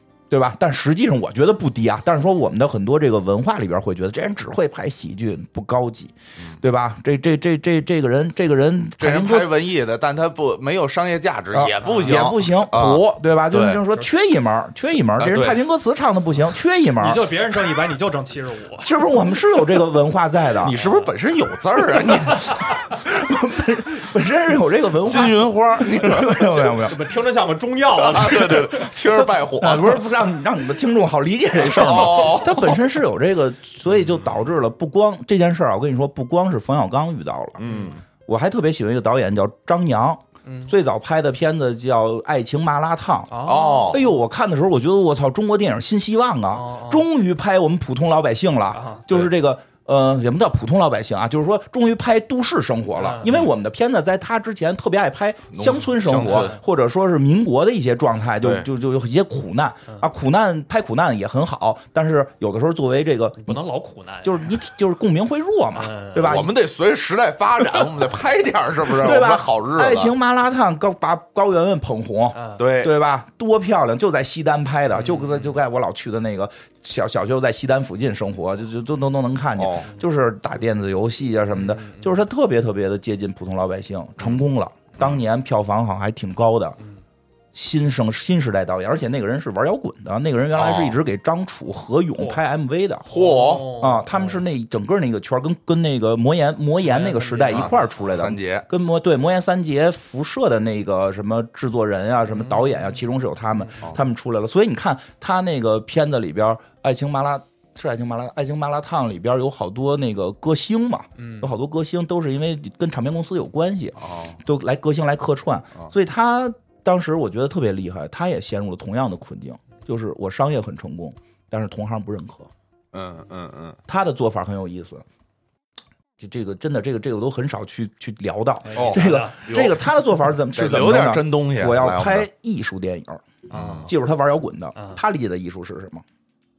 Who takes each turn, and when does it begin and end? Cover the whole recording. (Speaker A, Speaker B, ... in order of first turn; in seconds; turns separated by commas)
Speaker A: 0.3-9.6, Speaker B: 9.0-13.8, Speaker A: 11.5-17.3, Speaker C: 11.8-12.3, Speaker B: 15.2-15.6, Speaker C: 16.9-18.9, Speaker A: 18.8-20.7, Speaker B: 20.6-22.6, Speaker C: 20.7-21.1, Speaker A: 22.2-27.1, Speaker B: 25.0-26.8, Speaker C: 26.5-28.8, Speaker B: 28.1-30.1, Speaker A: 28.1-37.6, Speaker B: 31.6-32.8, Speaker B: 37.6-38.0, Speaker C: 37.6-37.9, Speaker A: 38.2-63.6, Speaker C: 40.4-40.7, Speaker C: 43.3-44.1, Speaker B: 43.4-44.0, Speaker C: 46.5-47.0, Speaker C: 48.7-49.0, Speaker C: 53.0-53.3, Speaker B: 55.5-56.5, Speaker C: 56.2-56.6, Speaker B: 58.4-58.7, Speaker C: 63.4-64.5, Speaker A: 64.2-66.5, Speaker C: 65.7-66.4, Speaker B: 66.2-70.1, Speaker A: 68.9-86.8, Speaker C: 72.3-72.6, Speaker B: 72.6-72.9, Speaker C: 74.9-75.5, Speaker B: 79.6-79.9, Speaker C: 81.5-82.1, Speaker A: 87.5-93.1, Speaker B: 90.5-91.0, Speaker C: 93.0-94.4, Speaker B: 93.1-93.8, Speaker A: 93.7-122.5, Speaker C: 96.8-98.1, Speaker B: 97.5-98.7, Speaker C: 102.3-103.0, Speaker C: 103.5-103.9, Speaker C: 111.2-111.5, Speaker B: 114.0-114.4, Speaker B: 122.9-123.8, Speaker A: 123.9-125.0, Speaker A: 126.2-136.0, Speaker C: 128.6-129.4, Speaker B: 128.7-129.8, Speaker B: 130.5-132.3, Speaker B: 133.5-133.9, Speaker C: 133.5-133.9, Speaker C: 134.8-135.0